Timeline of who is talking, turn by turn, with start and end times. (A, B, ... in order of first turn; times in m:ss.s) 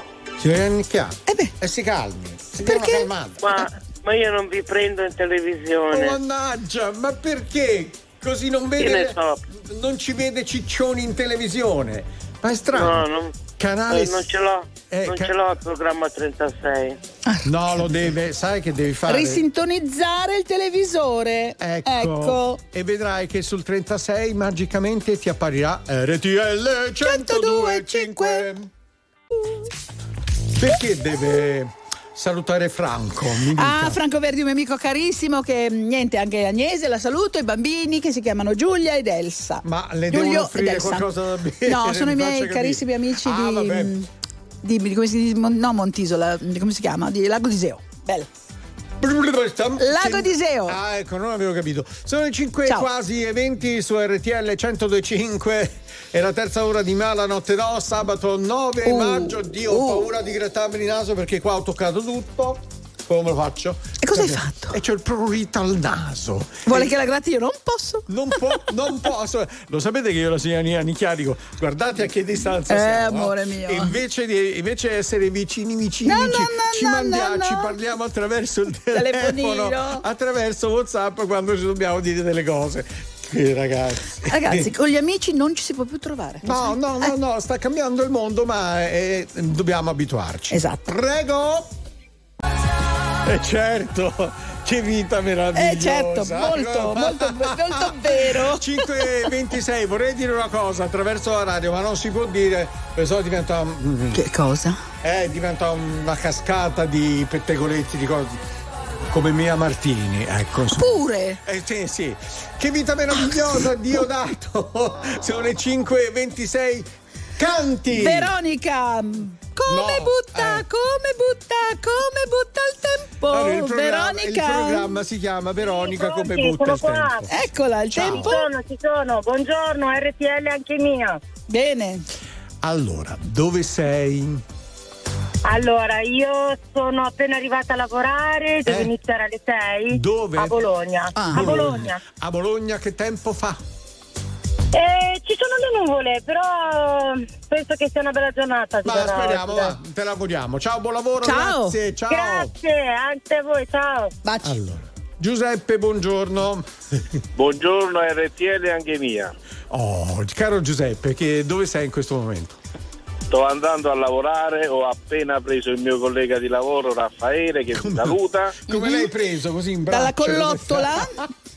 0:00.4-0:03.6 A
0:01.3-0:01.5 B
0:02.6-0:03.1 B
0:03.4-0:06.2 C
0:05.9-0:13.0 A
0:08.8-0:09.4 C
0:12.7-0:13.4 C
0:13.6-0:14.2 A
0:13.9-0:17.0 C
0:14.9-0:15.3 A
0:17.2-0:17.5 B
0:17.4-0:19.4 A
0:19.1-0:22.6 B
0:21.6-0:28.7 A
0:27.0-0:28.5 B
0:30.5-0:34.0 A
0:33.5-0:41.1 B
0:39.6-0:44.0 A
0:41.6-0:44.1 B
0:44.6-0:48.3 B
0:49.0-1:06.9 A
0:49.8-0:50.8 B
0:58.8-1:00.1 B
1:04.0-1:04.8 B
1:06.6-1:08.6 B
1:08.1-1:24.7 A
1:12.7-1:14.0 B
1:16.0-1:17.7 B
1:18.9-1:20.0 B
1:24.2-1:27.1 B
1:26.4-1:31.7 A
1:30.5-1:30.9 B
1:33.2-1:44.2 A
1:35.5-1:38.8 B
1:44.1-1:44.8 B
1:45.0-1:48.4 A
1:49.1-1:58.3 A
1:50.8-1:51.4 B
1:57.9-2:04.9 B
1:59.7-2:00.6 A
2:03.3-2:07.3 A
2:05.8-2:07.3 D
2:07.3-2:08.4 B
2:07.9-2:08.4 A
2:08.1-2:11.2 D
2:11.5-2:12.0 B
2:12.6-2:14.4 A
2:15.4-2:22.0 D
2:18.6-2:18.9 A
2:19.9-2:20.6 A
2:21.1-2:21.5 B
2:21.3-2:23.6 A
2:24.7-2:29.7 D
2:28.8-2:32.5 A
2:31.2-2:31.8 B
2:32.1-2:34.1 D
2:34.2-2:34.6 B
2:34.4-2:36.7 A
2:37.4-2:39.3 E
2:39.7-2:42.6 A
2:43.3-2:48.6 E
2:47.7-2:51.3 A
2:48.7-2:49.1 B
2:49.9-2:51.2 B